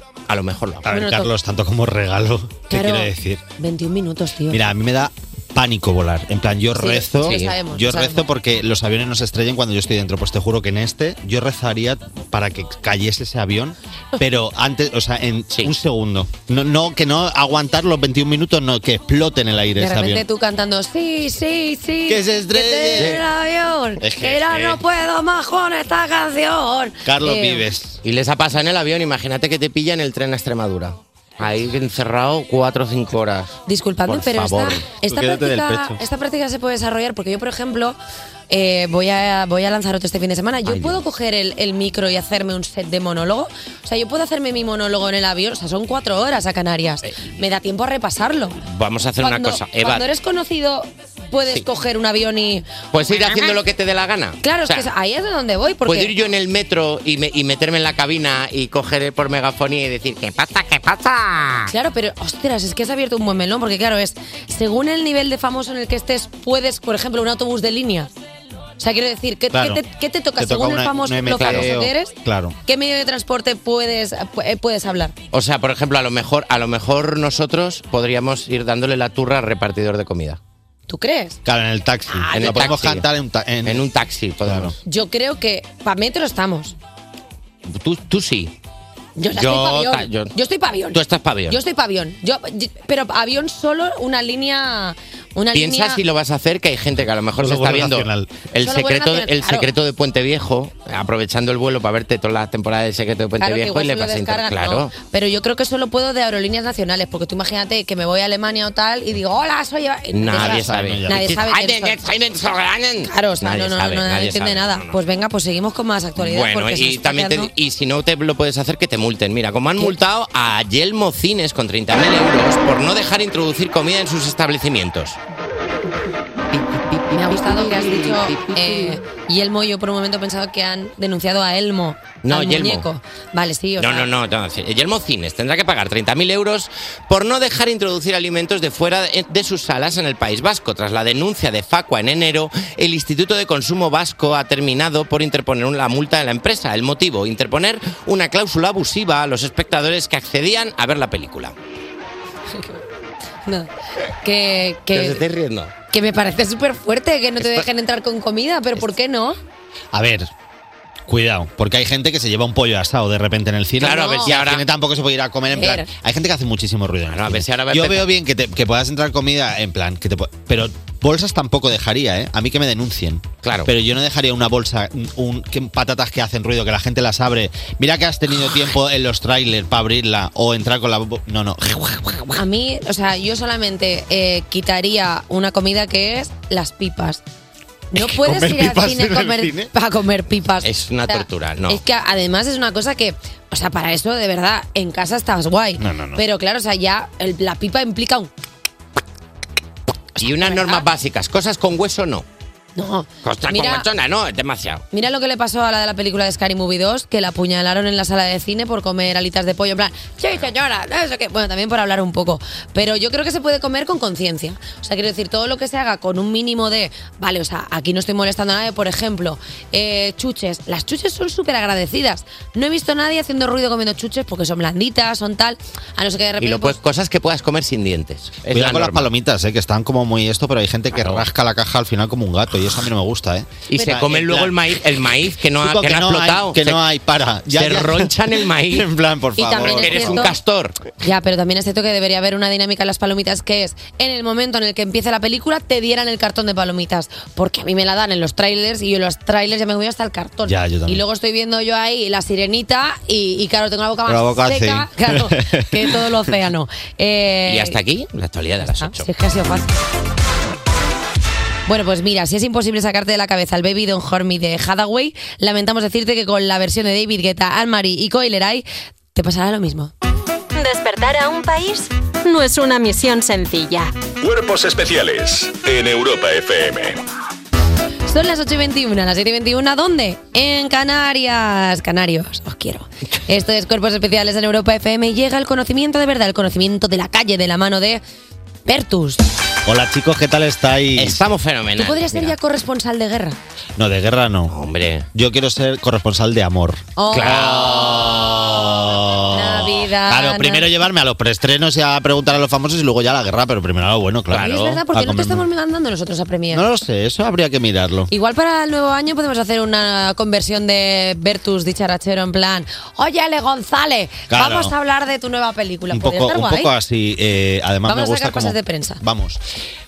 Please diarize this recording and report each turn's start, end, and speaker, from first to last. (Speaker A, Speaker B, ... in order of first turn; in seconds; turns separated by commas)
Speaker A: 0.3-0.9, Speaker B: 0.8-3.4, Speaker C: 0.9-1.3, Speaker C: 2.7-4.6, Speaker B: 4.5-20.3, Speaker C: 6.8-8.2, Speaker A: 7.2-7.6, Speaker C: 19.8-27.6, Speaker B: 22.1-23.2, Speaker B: 24.0-24.8, Speaker A: 24.5-24.7, Speaker B: 27.1-28.0, Speaker A: 28.0-34.9, Speaker C: 33.7-38.0, Speaker B: 35.0-36.0, Speaker C: 38.5-48.6, Speaker A: 40.7-41.0, Speaker A: 47.1-47.4, Speaker A: 48.7-50.0, Speaker C: 49.2-53.5, Speaker A: 52.9-54.9, Speaker C: 54.4-56.1, Speaker A: 55.9-61.7, Speaker C: 61.7-68.1, Speaker C: 68.8-75.2, Speaker B: 69.5-69.8, Speaker B: 70.4-72.6, Speaker A: 71.3-71.8, Speaker A: 75.3-80.4, Speaker C: 80.9-81.4, Speaker B: 81.5-83.9, Speaker A: 82.2-83.1, Speaker A: 83.7-84.8, Speaker B: 84.4-84.8, Speaker C: 84.8-86.8, Speaker A: 87.7-88.5, Speaker C: 89.2-96.0, Speaker A: 89.3-90.3, Speaker A: 90.9-91.6, Speaker A: 95.5-104.9, Speaker B: 97.4-98.5, Speaker C: 98.6-99.7, Speaker C: 103.4-112.0, Speaker A: 110.1-115.0, Speaker B: 110.3-111.4, Speaker C: 113.0-117.5, Speaker A: 116.2-125.2, Speaker A: 126.5-129.0, Speaker C: 127.1-134.1, Speaker A: 132.2-132.9, Speaker A: 133.8-151.6, Speaker C: 152.5-152.8, Speaker C: 154.2-155.2, Speaker A: 154.9-155.7, Speaker C: 155.9-159.4, Speaker B: 159.9-160.3, Speaker B: 161.1-182.2, Speaker A: 163.8-164.7, Speaker C: 163.9-164.4, Speaker C: 165.5-165.9, Speaker A: 167.1-168.1, Speaker A: 173.4-173.7, Speaker C: 182.3-187.2, Speaker C: 187.9-198.3, Speaker B: 188.0-189.7, Speaker A: 190.6-191.8, Speaker B: 195.8-196.2, Speaker C: 200.2-200.8, Speaker A: 200.2-202.3, Speaker C: 202.8-203.9, Speaker A: 203.2-204.8, Speaker C: 204.9-226.8, Speaker A: 226.4-229.1, Speaker B: 228.5-234.6, Speaker A: 230.9-231.3, Speaker A: 233.7-236.8, Speaker B: 235.6-238.1, Speaker A: 237.5-238.9, Speaker B: 238.7-240.3, Speaker C: 239.4-240.3, Speaker A: 239.6-240.8, Speaker C: 241.0-257.8, Speaker B: 250.5-251.0, Speaker B: 254.1-256.0, Speaker A: 257.5-259.1, Speaker C: 258.8-259.7, Speaker C: 261.7-269.9, Speaker D: 270.5-273.9, Speaker E: 274.2-277.0, Speaker C: 278.1-288.0, Speaker C: 288.7-289.2, Speaker B: 289.7-291.2, Speaker A: 291.0-292.4, Speaker C: 291.8-293.4, Speaker B: 293.8-294.6, Speaker A: 294.5-295.1, Speaker B: 295.1-305.5, Speaker C: 297.0-297.7, Speaker A: 297.1-298.3, Speaker C: 299.3-300.7, Speaker A: 304.3-304.8, Speaker C: 304.3-306.7, Speaker B: 306.5-308.1, Speaker C: 308.1-316.7, Speaker B: 314.3-314.7, Speaker B: 315.9-319.4, Speaker C: 317.9-319.0